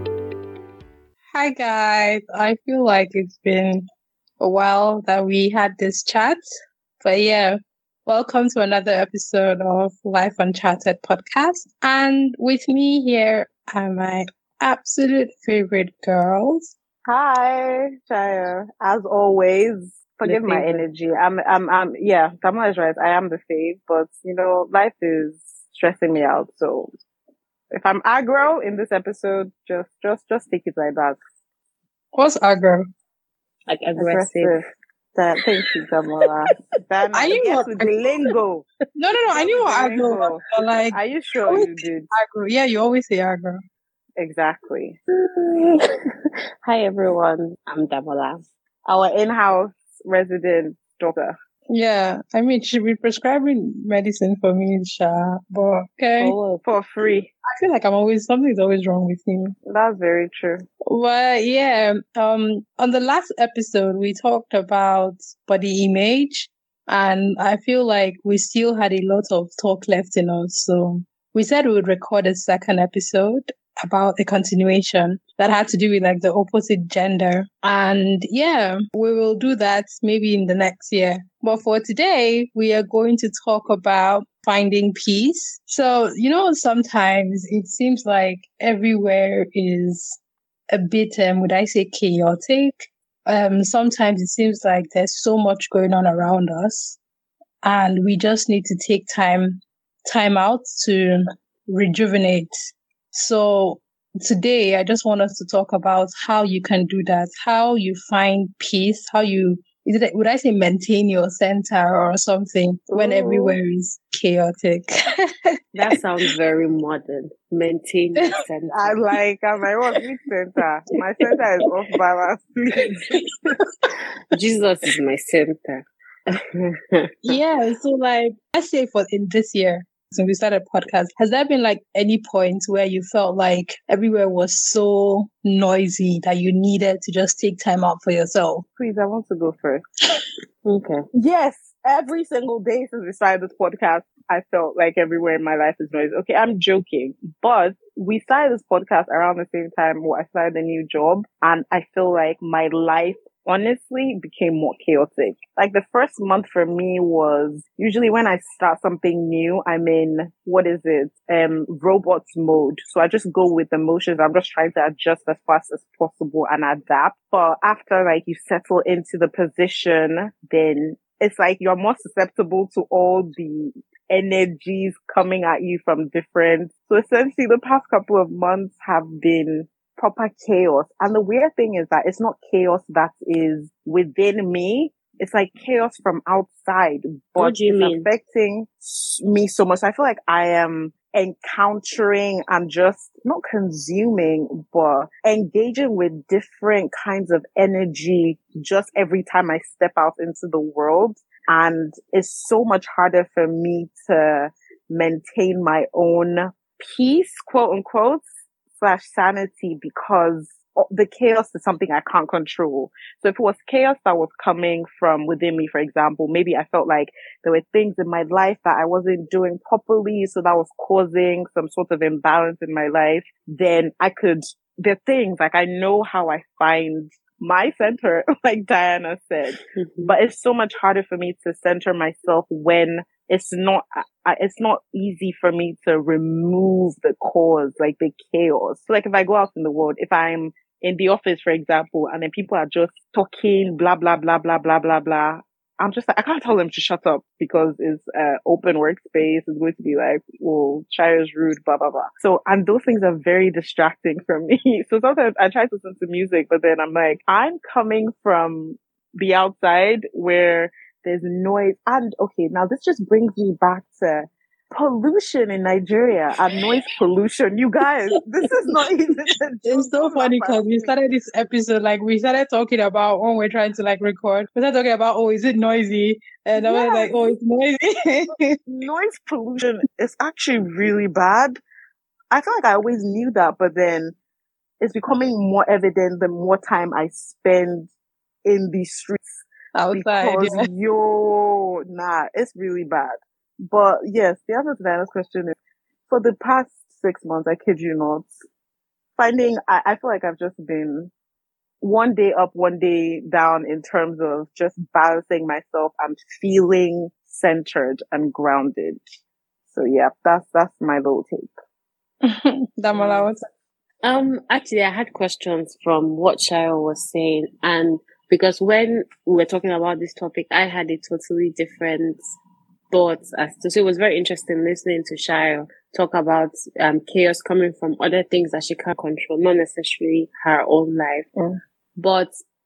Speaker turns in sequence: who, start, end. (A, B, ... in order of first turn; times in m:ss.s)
0:01.3-0:03.8 A
0:04.4-0:06.4 A
0:07.0-0:16.7 A
0:17.0-0:26.9 B
0:20.2-0:20.8 C
0:27.7-0:31.2 B
0:32.1-0:32.8 A
0:33.7-0:34.6 C
0:34.0-0:34.6 B
0:35.1-0:38.6 B
0:37.1-0:37.9 A
0:39.0-0:43.6 A
0:39.3-0:42.1 B
0:44.2-0:45.0 B
0:45.1-0:48.4 C
0:48.8-0:51.3 B
0:51.7-0:56.3 A
0:56.2-0:56.6 C
0:56.6-0:57.3 B
0:57.5-0:59.5 A
0:59.6-1:00.6 B
1:00.9-1:37.0 A
1:37.6-1:55.3 A
1:52.9-1:53.6 B
1:55.7-1:59.0 C
1:58.7-2:03.2 B
2:04.3-2:07.4 C
2:07.2-2:18.6 A
2:18.8-2:19.8 B
2:20.6-2:21.0 C
2:21.1-4:30.9 B
3:07.4-3:08.1 C
3:49.7-3:50.1 C
4:29.6-4:38.6 A
4:36.6-4:37.3 B
4:38.7-4:41.6 B
4:42.3-4:44.1 B
4:44.8-4:47.9 B
4:48.4-4:53.1 B
4:49.7-4:50.7 A
4:53.6-4:55.6 B
4:56.1-4:58.4 B
4:59.2-5:01.1 B
5:01.8-5:09.0 B
5:09.7-5:11.5 B
5:12.2-5:13.5 A
5:12.9-5:13.3 C
5:14.0-5:22.3 C
5:22.9-5:31.2 C
5:32.0-5:32.4 C